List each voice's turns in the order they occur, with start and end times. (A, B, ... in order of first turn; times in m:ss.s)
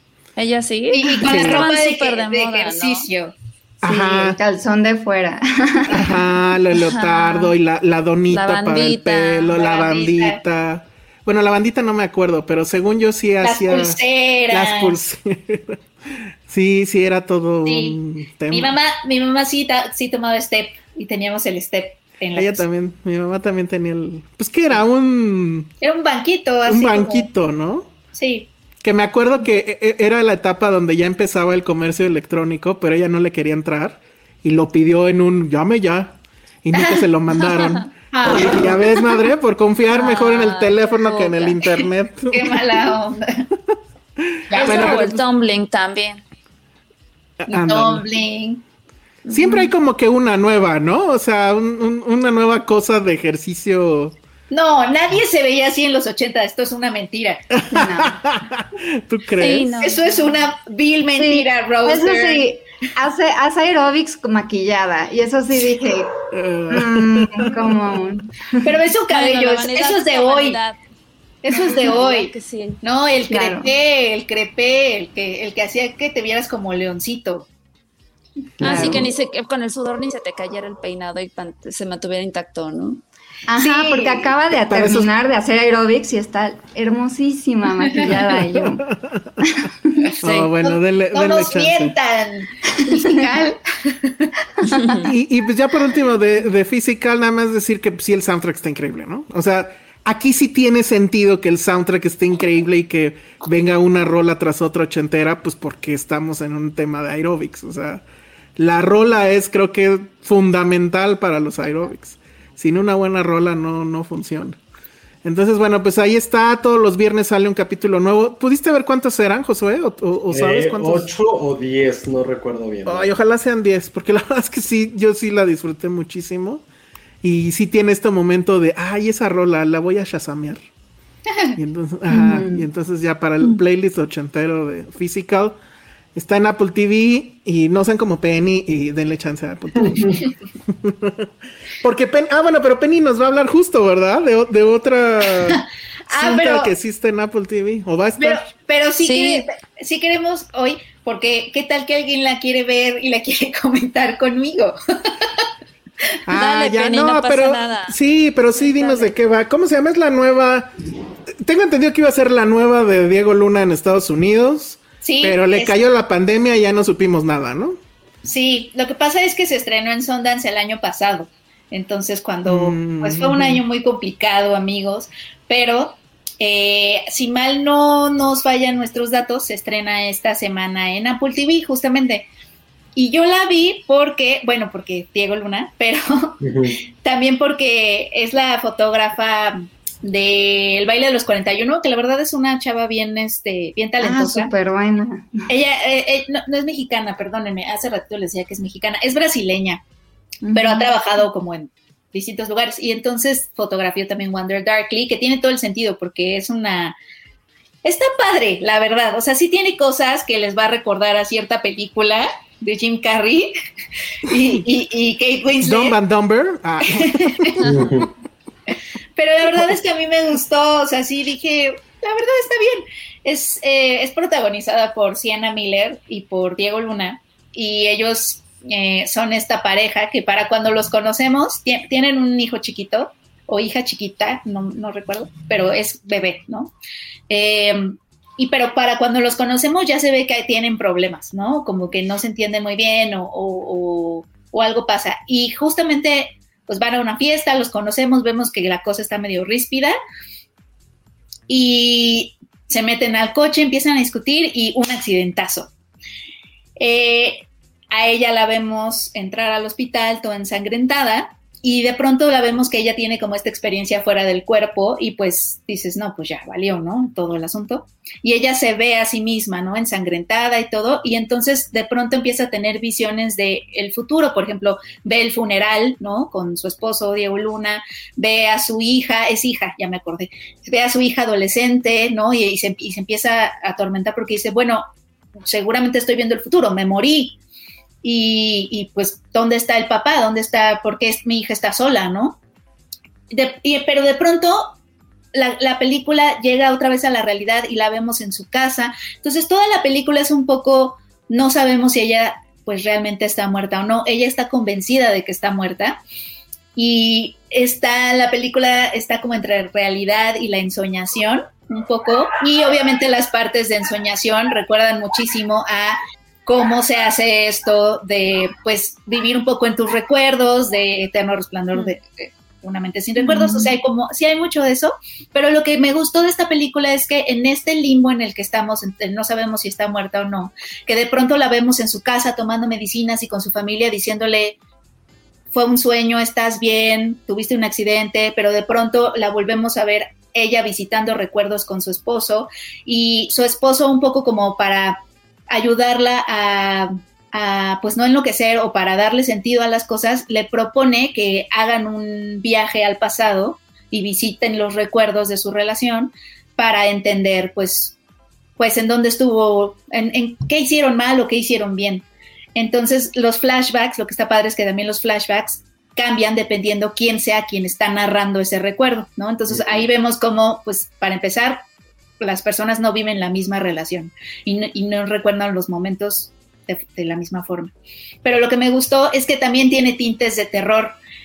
0:00.4-0:03.0 A
0:00.9-0:03.3 B
0:01.2-0:01.7 C
0:03.8-0:04.4 C
0:03.8-0:06.2 D
0:05.9-0:14.0 C
0:06.8-0:07.5 A
0:08.3-0:09.5 A
0:09.6-0:10.4 B
0:13.4-0:15.0 B
0:14.5-0:18.8 C
0:17.6-0:18.0 B
0:18.5-0:22.6 B
0:22.3-0:25.7 C
0:25.8-0:27.3 B
0:26.6-0:27.9 C
0:28.1-0:28.5 B
0:28.8-0:42.8 C
0:36.7-0:37.0 B
0:38.1-0:38.8 B
0:39.9-0:41.6 A
0:42.3-0:43.5 B
0:44.2-0:45.2 C
0:44.5-0:45.0 B
0:44.5-0:46.2 A
0:47.4-0:48.0 C
0:47.5-0:48.6 B
0:49.3-0:54.1 C
0:54.5-0:57.4 B
0:57.5-0:59.7 C
0:57.7-0:58.2 D
0:59.4-1:00.0 A
0:59.8-1:02.5 B
1:01.1-1:06.1 D
1:06.3-1:08.0 C
1:06.7-1:08.3 D
1:08.6-1:10.6 B
1:09.1-1:10.8 A
1:11.4-1:17.5 B
1:11.7-1:12.8 A
1:13.3-1:13.7 D
1:18.6-1:19.0 C
1:18.6-1:23.0 A
1:18.6-1:19.0 E
1:23.5-1:28.8 D
1:23.5-1:24.3 B
1:24.6-1:25.1 C
1:28.0-1:29.4 C
1:29.4-1:29.7 D
1:30.2-1:32.0 C
1:30.2-1:30.5 A
1:30.6-1:34.3 B
1:32.9-1:33.5 D
1:34.6-1:35.0 D
1:35.0-1:48.0 C
1:48.6-1:54.6 C
1:55.2-2:01.1 C
2:00.3-2:03.1 E
2:02.8-2:06.6 C
2:07.2-2:10.6 C
2:11.3-2:11.6 B
2:11.6-2:15.6 C
2:12.1-2:12.6 D
2:16.1-2:28.4 C
2:25.5-2:26.7 B
2:28.2-2:35.3 B
2:29.0-2:29.4 A
2:36.2-2:40.7 C
2:36.3-2:38.0 A
2:38.5-2:39.1 A
2:41.3-2:47.8 C
2:45.0-2:45.7 B
2:48.2-3:02.3 B
2:52.4-2:53.6 C
3:02.9-3:06.4 B
3:06.4-3:06.8 E
3:07.0-3:14.5 B
3:14.0-3:15.5 D
3:15.5-3:19.8 B
3:20.4-3:20.9 D
3:20.5-3:27.0 B
3:27.8-3:33.6 B
3:34.3-3:36.0 B
3:35.6-3:38.0 C
3:37.0-3:37.6 B
3:37.6-3:38.1 E
3:39.2-3:56.7 B
3:57.3-4:10.0 B
4:11.5-4:15.7 B
4:16.8-4:44.8 B
4:45.4-4:47.4 B
4:48.0-4:52.4 B
4:53.3-4:54.8 B
4:55.3-5:06.0 B
5:06.8-5:34.6 B
5:23.2-5:23.7 D
5:35.5-5:58.0 B
5:58.6-6:11.6 B
6:09.5-6:09.8 E
6:12.2-6:17.7 B
6:18.2-6:21.0 B